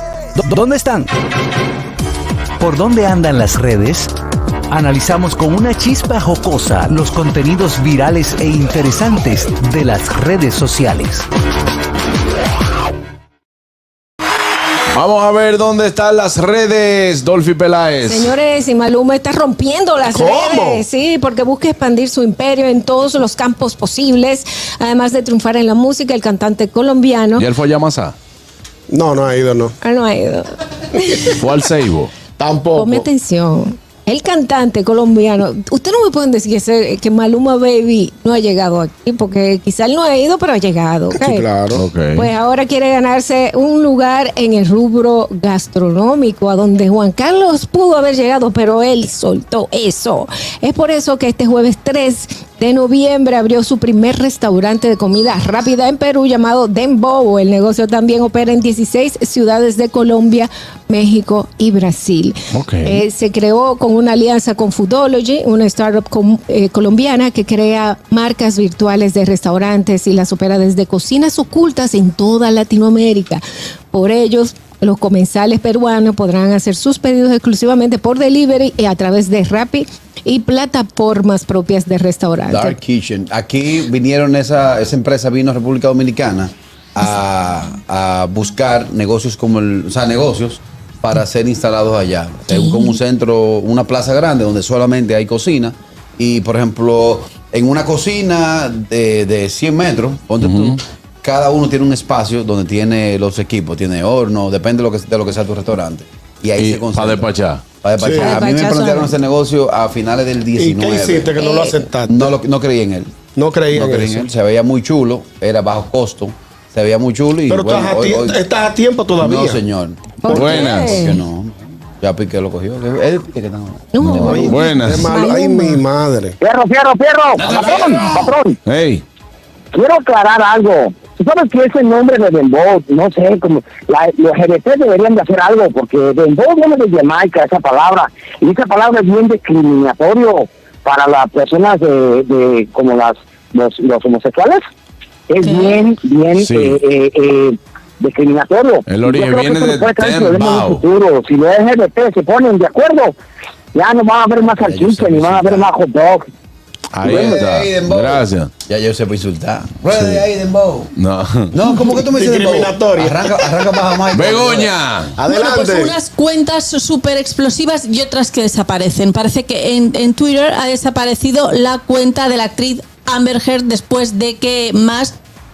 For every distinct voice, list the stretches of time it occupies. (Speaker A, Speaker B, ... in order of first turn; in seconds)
Speaker A: 0.3-1.1, 2.6-4.1, 4.7-11.2
Speaker B: 14.9-18.4, 27.4-28.1, 31.4-32.1, 41.7-42.3, 62.5-63.0, 100.4-100.8, 106.6-107.7, 120.3-121.0, 124.0-125.1, 128.6-129.0, 146.3-146.8, 148.8-150.9, 156.9-158.5, 159.9-160.2, 161.0-161.5, 164.1-165.2
Speaker C: 18.0-27.5, 29.8-31.4, 32.8-41.5, 42.1-82.8, 111.4-111.8, 120.2-121.2, 123.9-125.8
Speaker D: 20.1-20.8, 28.9-29.7, 32.4-33.1, 41.1-41.9, 108.0-108.4, 110.6-112.3, 113.3-114.3, 117.5-119.6, 124.2-126.3, 161.9-163.2, 165.2-165.9
Speaker E: 82.5-107.3, 107.8-111.3, 112.1-113.1, 113.7-118.4, 119.2-124.5, 154.6-155.7, 157.0-160.9, 161.5-164.7
Speaker F: 92.5-93.0, 108.2-109.1, 145.4-145.8, 165.3-175.1
Speaker G: 126.4-128.6, 129.7-144.6, 145.3-153.1, 153.7-156.2